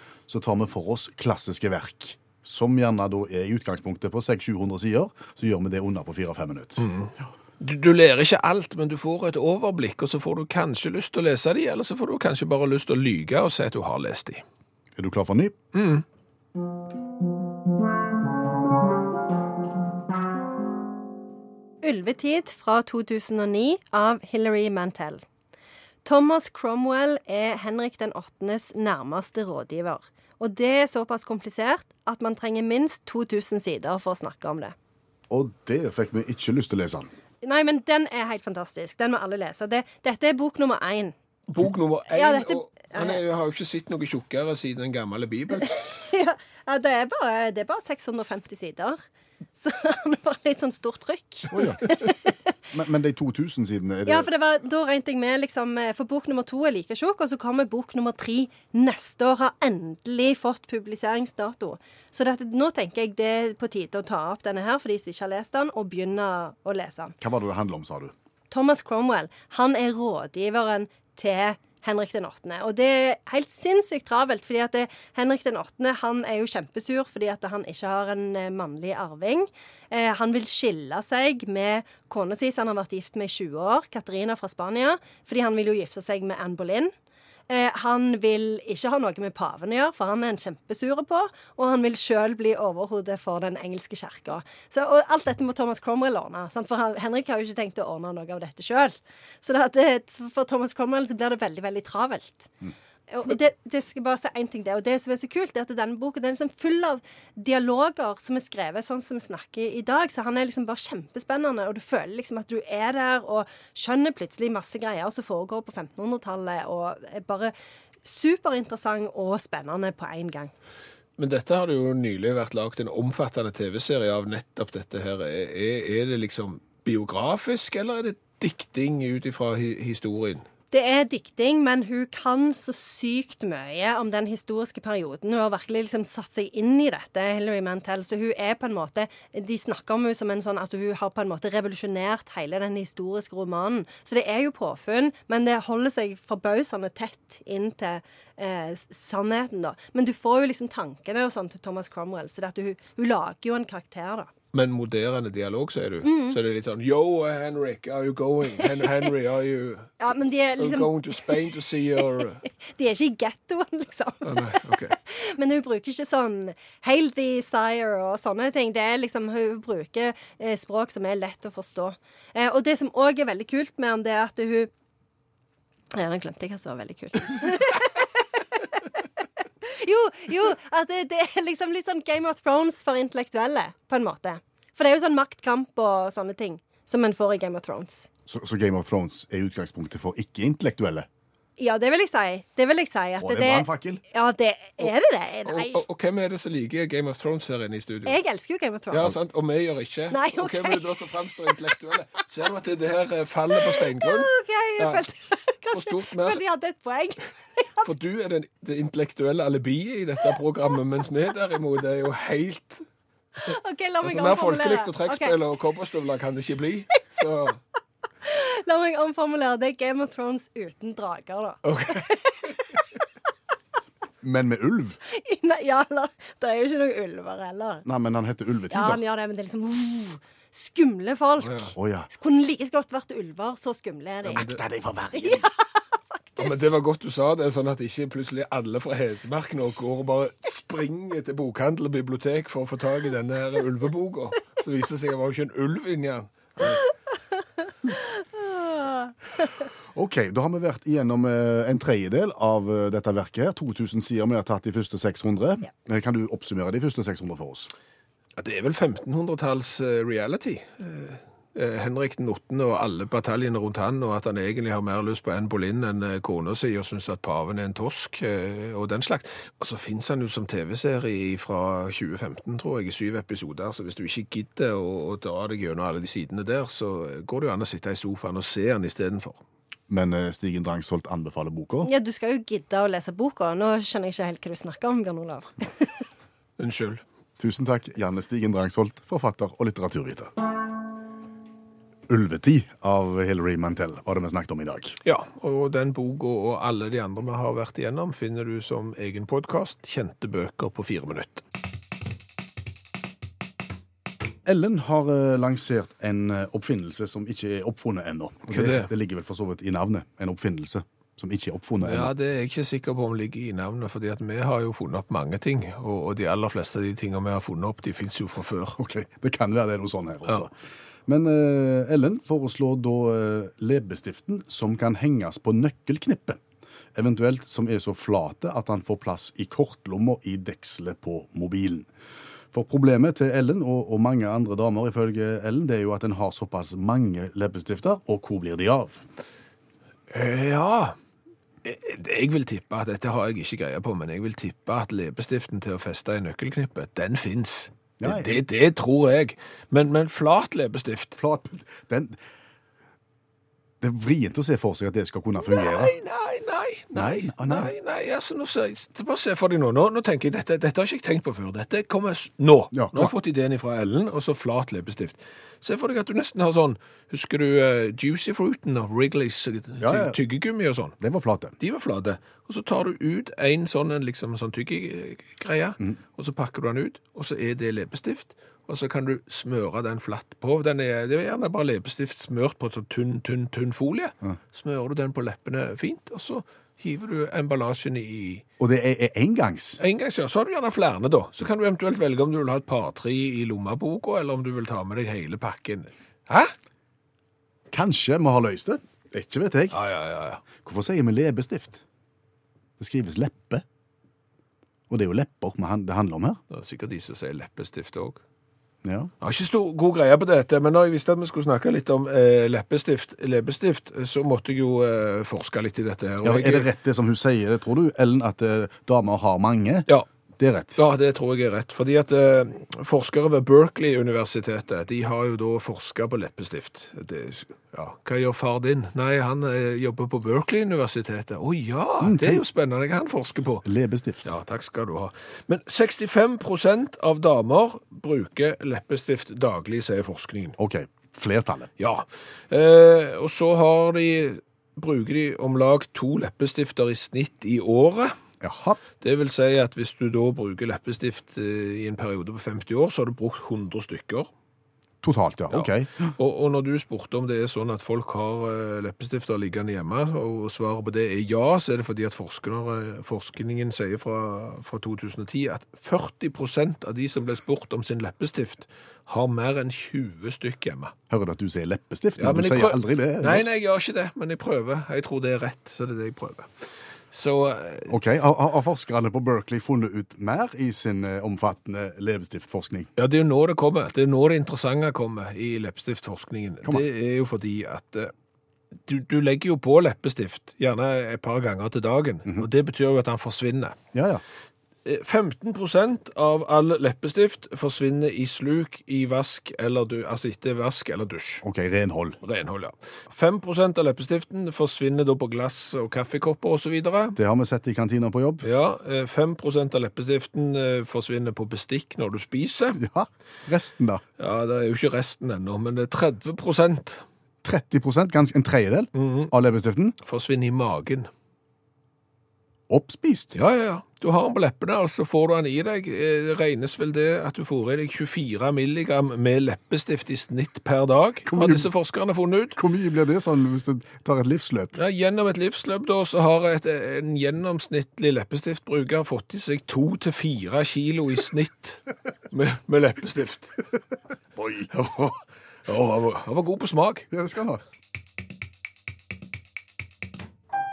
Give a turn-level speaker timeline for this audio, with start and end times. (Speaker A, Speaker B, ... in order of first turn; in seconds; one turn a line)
Speaker A: 0.3-6.8
Speaker B: 6.8-14.4
Speaker A: 15.0-15.6
Speaker B: 15.7-16.0
Speaker C: 21.8-25.2
Speaker C: 26.1-34.8
Speaker A: 35.3-37.1
Speaker C: 37.4-41.1
Speaker B: 41.5-45.7
Speaker C: 42.1-43.2
Speaker C: 45.6-49.0
Speaker C: 49.6-52.3
Speaker A: 51.5-52.0
Speaker A: 52.7-54.3
Speaker C: 54.1-67.2
Speaker A: 67.2-68.1
Speaker C: 68.5-86.9
Speaker C: 87.5-102.5
Speaker C: 103.1-120.5
Speaker B: 121.2-130.4
Speaker C: 130.7-154.3
Speaker B: 154.5-160.0
Speaker C: 156.0-156.4
Speaker C: 160.0-162.0
Speaker B: 160.6-162.4
Speaker C: 162.5-164.5
Speaker B: 164.2-164.9
Speaker C: 165.1-174.7
Speaker C: 175.9-178.1
Speaker C: 179.7-188.1
Speaker A: 188.3-191.1
Speaker C: 191.6-195.8
Speaker A: 193.2-194.0
Speaker B: 195.5-198.2
Speaker C: 198.1-199.2
Speaker B: 198.9-205.0
Speaker C: 200.1-201.6
Speaker C: 203.7-207.9
Speaker B: 205.7-206.4
Speaker B: 207.8-212.8
Speaker C: 213.4-215.4
Speaker B: 214.0-217.6
Speaker C: 218.2-222.8
Speaker B: 221.6-222.1
Speaker A: 224.2-225.0
Speaker C: 225.1-227.9
Speaker A: 227.8-229.0
Speaker C: 228.7-234.6
Speaker B: 231.4-231.7
Speaker A: 231.8-232.1
Speaker A: 234.2-235.5
Speaker C: 235.1-236.8
Speaker B: 236.4-246.9
Speaker C: 247.9-249.5
Speaker A: 249.9-257.7
Speaker B: 258.4-279.4
Speaker A: 279.9-281.9
Speaker C: 281.8-286.0
Speaker B: 286.6-287.0
Speaker A: 287.4-290.3
Speaker A: 292.1-295.0
Speaker B: 295.0-301.4
Speaker A: 304.4-312.1
Speaker B: 308.5-308.9
Speaker B: 311.8-318.8
Speaker A: 318.8-320.5
Speaker A: 321.1-326.4
Speaker A: 326.9-331.9
Speaker A: 332.5-339.1
Speaker B: 340.1-341.0
Speaker B: 341.6-351.2
Speaker A: 348.0-348.4
Speaker A: 351.2-352.2
Speaker A: 353.8-355.9
Speaker B: 355.4-371.0
Speaker A: 356.9-357.7
Speaker A: 362.7-363.1
Speaker A: 369.8-370.2
Speaker A: 371.0-371.6
Speaker B: 371.6-388.4
Speaker A: 388.6-389.8
Speaker B: 389.8-396.5
Speaker A: 397.7-399.8
Speaker B: 399.7-400.4
Speaker A: 400.6-401.8
Speaker A: 402.8-403.6
Speaker A: 404.9-406.4
Speaker B: 406.5-408.2
Speaker A: 408.8-409.1
Speaker B: 409.2-416.7
Speaker A: 416.2-419.9
Speaker A: 420.4-420.8
Speaker B: 420.8-433.7
Speaker A: 432.0-432.4
Speaker A: 433.6-434.3
Speaker B: 434.2-440.6
Speaker A: 440.6-441.7
Speaker B: 441.8-448.2
Speaker A: 448.4-448.8
Speaker B: 449.0-454.3
Speaker A: 455.0-456.1
Speaker B: 455.5-470.9
Speaker A: 471.1-473.5
Speaker B: 472.2-476.5
Speaker B: 477.1-477.9
Speaker A: 477.9-482.9
Speaker B: 483.0-488.1
Speaker B: 488.9-493.8
Speaker A: 493.9-494.2
Speaker B: 494.9-501.4
Speaker A: 501.4-502.2
Speaker B: 502.2-507.2
Speaker A: 507.2-508.4
Speaker B: 508.4-512.8
Speaker A: 512.8-514.0
Speaker B: 514.2-517.0
Speaker A: 517.4-520.0
Speaker B: 519.0-519.3
Speaker B: 520.0-521.1
Speaker A: 522.7-523.4
Speaker B: 523.4-532.6
Speaker A: 531.3-531.7
Speaker A: 532.6-534.8
Speaker B: 534.8-543.6
Speaker A: 544.4-544.7
Speaker B: 544.7-547.1
Speaker A: 547.1-547.6